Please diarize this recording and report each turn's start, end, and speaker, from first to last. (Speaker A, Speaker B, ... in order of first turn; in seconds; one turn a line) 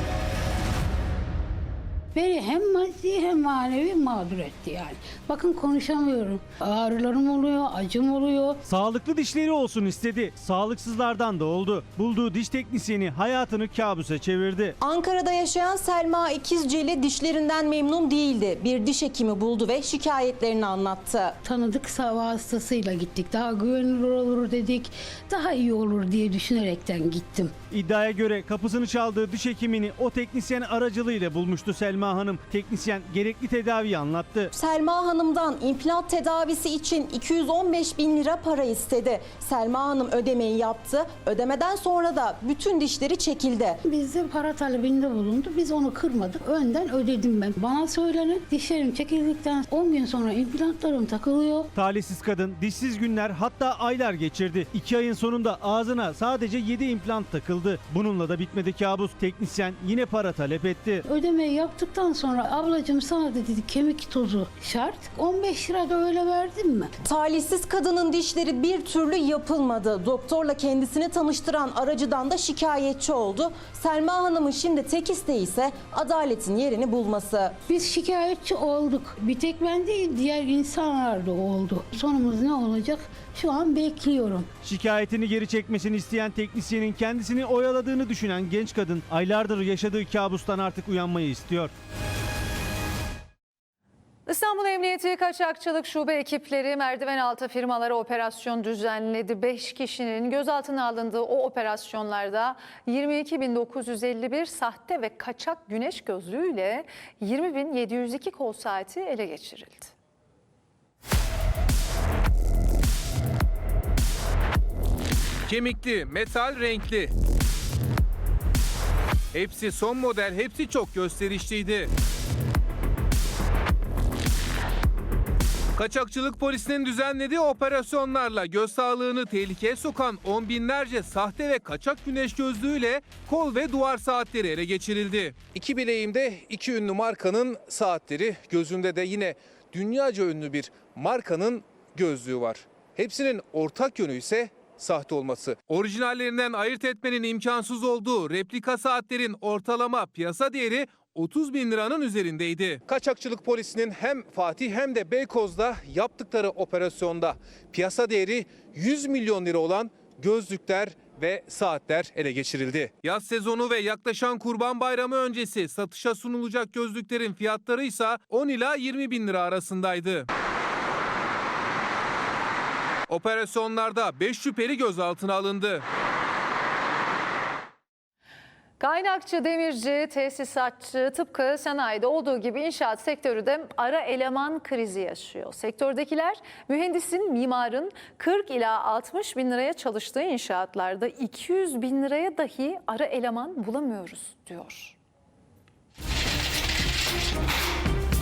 Speaker A: 2.1-8.6
Speaker B: 8.7-14.8
Speaker C: 14.8-21.4
Speaker A: 21.4-27.5
Speaker B: 27.7-34.5
Speaker C: 34.5-43.8
Speaker A: 43.9-51.7
Speaker B: 51.8-61.0
Speaker A: 61.1-66.9
Speaker C: 67.0-77.6
Speaker A: 77.7-84.5
Speaker B: 84.6-91.7
Speaker D: 94.3-109.9
Speaker E: 115.5-117.1
Speaker E: 119.3-121.9
Speaker E: 125.8-170.3
Speaker E: 173.1-175.8
Speaker D: 178.8-195.0